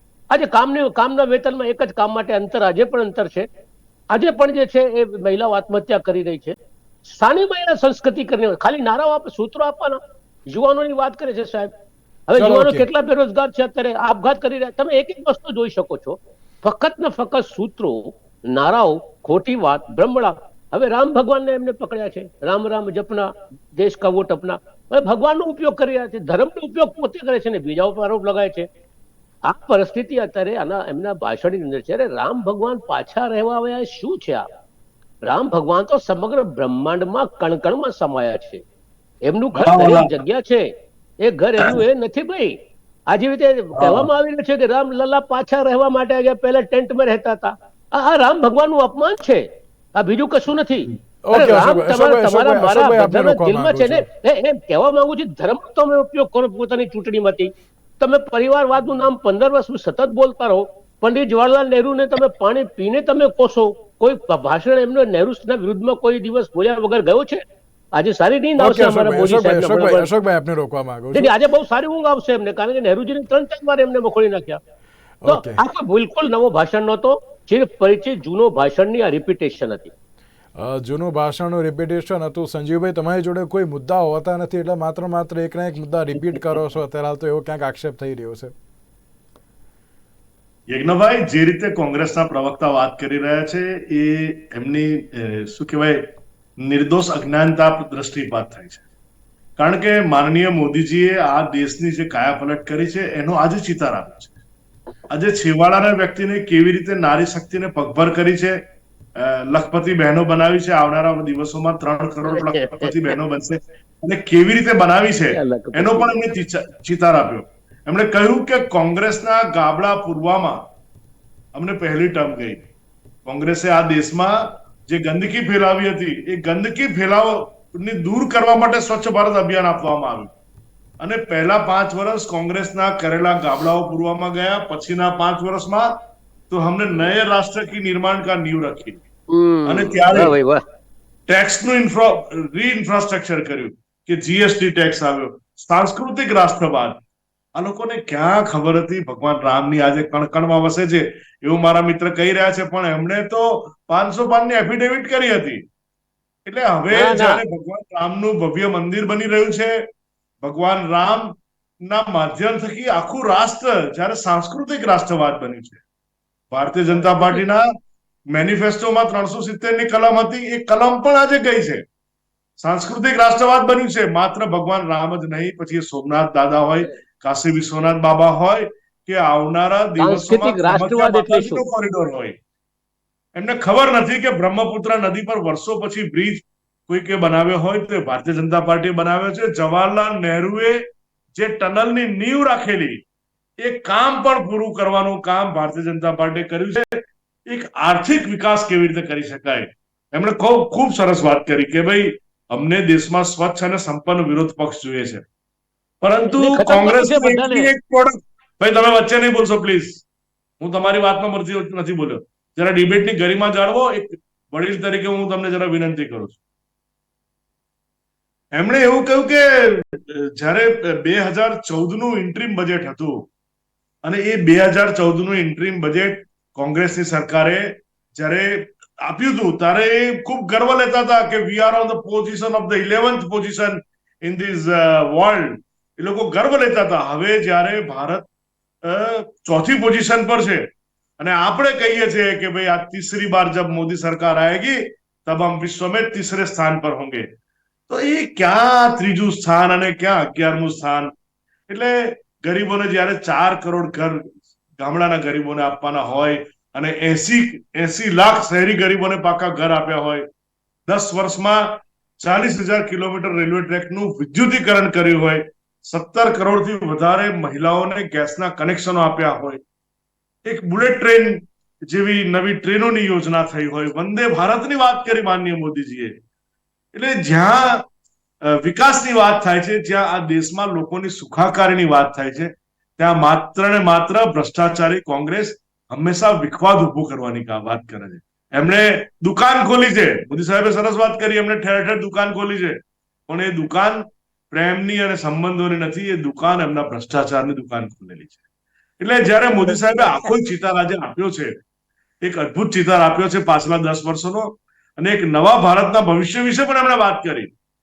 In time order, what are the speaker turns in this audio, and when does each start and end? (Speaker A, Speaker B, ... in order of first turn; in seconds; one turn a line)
Speaker A: 0.3-3.5
Speaker A: 4.1-11.7
Speaker A: 12.3-28.7
Speaker B: 12.4-12.8
Speaker A: 29.5-34.5
Speaker A: 35.2-38.6
Speaker A: 39.2-42.6
Speaker C: 39.5-40.2
Speaker A: 43.1-67.4
Speaker C: 43.8-44.1
Speaker B: 51.2-54.0
Speaker A: 68.0-70.1
Speaker B: 68.6-71.3
Speaker A: 71.1-74.6
Speaker B: 75.2-75.6
Speaker A: 75.3-79.9
Speaker B: 80.5-88.5
Speaker C: 90.7-96.0
Speaker C: 96.6-98.8
Speaker C: 99.6-104.3
Speaker C: 105.1-108.6
Speaker C: 109.2-120.6
Speaker A: 112.2-113.2
Speaker A: 115.3-116.2
Speaker C: 121.5-122.6
Speaker C: 123.2-130.3
Speaker C: 131.0-135.9
Speaker C: 136.5-139.0
Speaker A: 139.3-140.6
Speaker C: 139.7-140.4
Speaker C: 141.3-147.0
Speaker C: 147.6-155.6
Speaker C: 156.5-159.8
Speaker A: 156.9-157.4
Speaker C: 160.4-165.8
Speaker C: 166.5-167.7
Speaker A: 167.2-167.4
Speaker C: 168.3-171.8
Speaker C: 172.6-182.4
Speaker A: 180.0-181.6
Speaker C: 183.3-193.0
Speaker C: 193.6-205.2
Speaker C: 206.0-210.0
Speaker A: 206.3-207.7
Speaker C: 210.6-216.4
Speaker C: 218.5-223.3
Speaker C: 224.0-238.2
Speaker C: 238.8-240.7
Speaker C: 241.2-247.3
Speaker C: 247.9-251.1
Speaker C: 251.7-260.2
Speaker C: 260.9-269.6
Speaker C: 270.4-276.1
Speaker C: 276.9-277.9
Speaker C: 278.5-298.3
Speaker C: 299.0-301.6
Speaker A: 299.6-300.3
Speaker C: 302.2-307.5